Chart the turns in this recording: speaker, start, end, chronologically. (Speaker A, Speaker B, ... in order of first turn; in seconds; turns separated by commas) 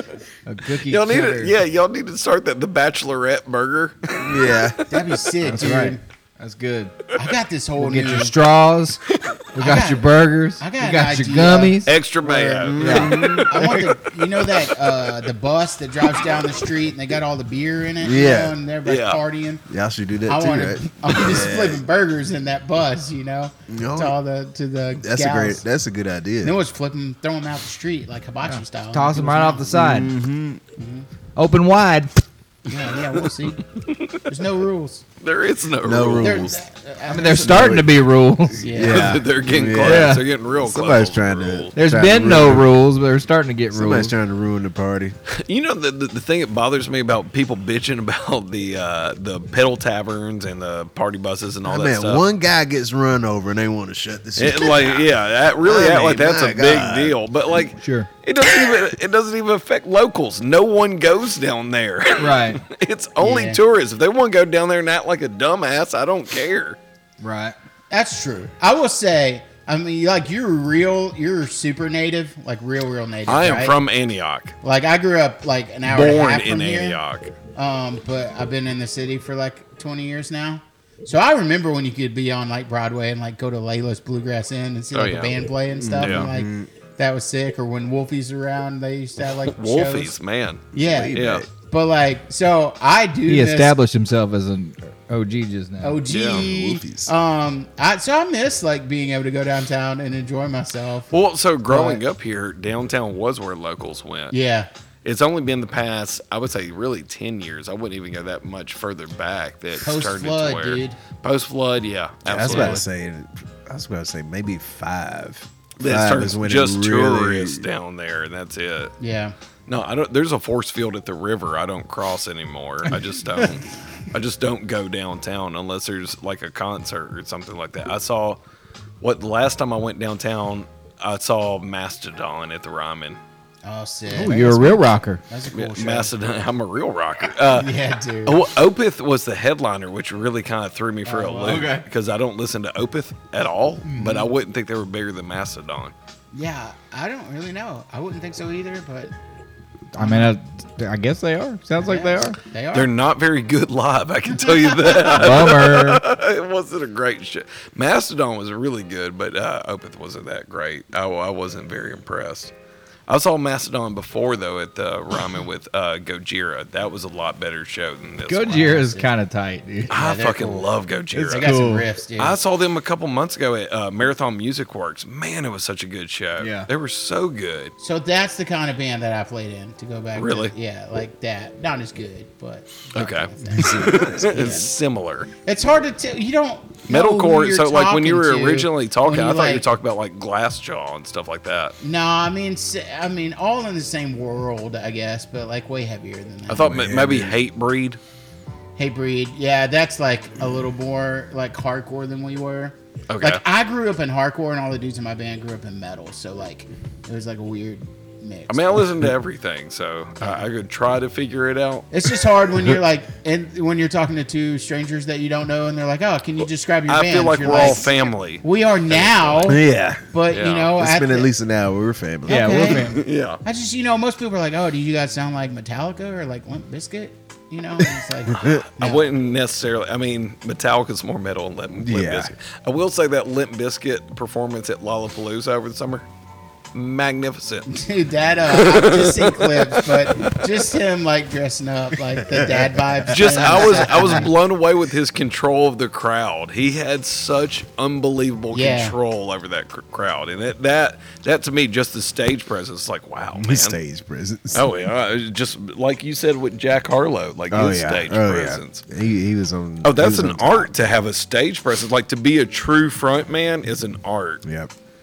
Speaker A: 0.5-1.6, Speaker B: 0.9-4.4, Speaker C: 4.2-4.9, Speaker D: 4.9-6.0, Speaker A: 5.4-6.9, Speaker D: 7.2-8.3, Speaker A: 7.8-9.0, Speaker A: 9.5-11.9, Speaker D: 9.6-19.6, Speaker B: 11.9-13.9, Speaker C: 12.7-13.8, Speaker A: 12.8-13.3, Speaker C: 18.0-18.6, Speaker B: 18.8-19.2, Speaker C: 19.7-21.8, Speaker D: 20.3-25.6, Speaker C: 23.7-24.2, Speaker C: 25.0-26.6, Speaker D: 26.4-29.7, Speaker A: 28.4-30.1, Speaker C: 29.7-30.6, Speaker D: 30.8-31.1, Speaker A: 31.4-32.2, Speaker D: 32.7-33.6, Speaker B: 33.9-34.2, Speaker D: 34.2-35.0, Speaker B: 35.2-36.5, Speaker C: 35.8-36.5, Speaker D: 36.2-37.9, Speaker A: 37.1-38.6, Speaker C: 37.4-37.9, Speaker D: 38.6-39.2, Speaker C: 38.6-42.7, Speaker B: 38.8-41.7, Speaker A: 39.8-40.2, Speaker A: 41.8-44.1, Speaker C: 43.7-45.2, Speaker B: 45.3-52.2, Speaker C: 51.7-55.1, Speaker B: 54.4-66.8, Speaker C: 55.6-57.2, Speaker A: 57.8-58.1, Speaker A: 62.2-62.6, Speaker D: 63.2-63.6, Speaker A: 67.2-67.5, Speaker D: 67.9-73.8, Speaker B: 73.3-74.5, Speaker D: 74.6-77.0, Speaker B: 75.9-77.3, Speaker D: 77.5-90.2, Speaker B: 84.9-85.4, Speaker C: 85.7-86.7, Speaker B: 86.0-86.3, Speaker B: 89.5-91.5, Speaker D: 90.7-93.8, Speaker C: 90.8-91.5, Speaker A: 93.3-96.0, Speaker D: 95.8-101.1, Speaker B: 96.1-96.5, Speaker C: 96.3-97.1, Speaker B: 101.1-104.3, Speaker D: 101.7-102.0, Speaker D: 104.3-104.7, Speaker B: 105.0-112.8, Speaker D: 109.8-111.0, Speaker C: 112.3-117.7, Speaker D: 112.4-112.8, Speaker B: 115.8-118.9, Speaker D: 119.0-119.4, Speaker B: 119.7-128.4, Speaker B: 129.0-133.2, Speaker D: 133.6-136.1, Speaker A: 134.1-135.2, Speaker B: 135.5-145.9, Speaker D: 137.5-138.4, Speaker D: 141.1-141.8, Speaker A: 141.4-141.9, Speaker A: 143.9-144.1, Speaker D: 144.0-144.3, Speaker D: 146.3-149.1, Speaker A: 149.9-152.4, Speaker D: 150.0-150.3, Speaker D: 151.8-152.9, Speaker B: 152.7-162.5, Speaker D: 154.3-155.3, Speaker A: 155.2-156.0, Speaker B: 163.1-168.8, Speaker A: 168.3-169.9, Speaker D: 168.5-169.1, Speaker D: 169.9-170.7, Speaker B: 169.9-171.6, Speaker C: 171.1-171.9, Speaker D: 171.3-172.4, Speaker B: 172.2-177.7, Speaker A: 176.4-176.7, Speaker D: 177.8-184.7, Speaker B: 180.2-180.5, Speaker B: 182.9-185.3, Speaker C: 183.5-184.3, Speaker D: 185.4-189.7, Speaker B: 186.9-191.8, Speaker D: 191.8-196.7, Speaker B: 196.5-198.0, Speaker C: 196.5-197.4, Speaker D: 198.8-208.9, Speaker B: 203.1-203.4, Speaker B: 208.5-211.9, Speaker D: 211.9-221.3, Speaker B: 216.9-219.6, Speaker C: 219.4-220.1, Speaker B: 220.3-220.7, Speaker C: 220.8-222.7, Speaker A: 222.3-223.0, Speaker D: 222.3-229.1, Speaker B: 222.8-223.4, Speaker C: 228.3-228.6, Speaker B: 228.4-236.1, Speaker C: 231.8-232.3, Speaker B: 236.7-237.7, Speaker D: 237.7-244.3, Speaker B: 238.5-240.4, Speaker C: 242.3-243.9, Speaker B: 243.1-253.8, Speaker D: 248.5-248.9, Speaker C: 253.4-254.7, Speaker B: 254.5-258.8, Speaker C: 257.5-260.8, Speaker B: 259.8-264.4, Speaker C: 264.4-264.7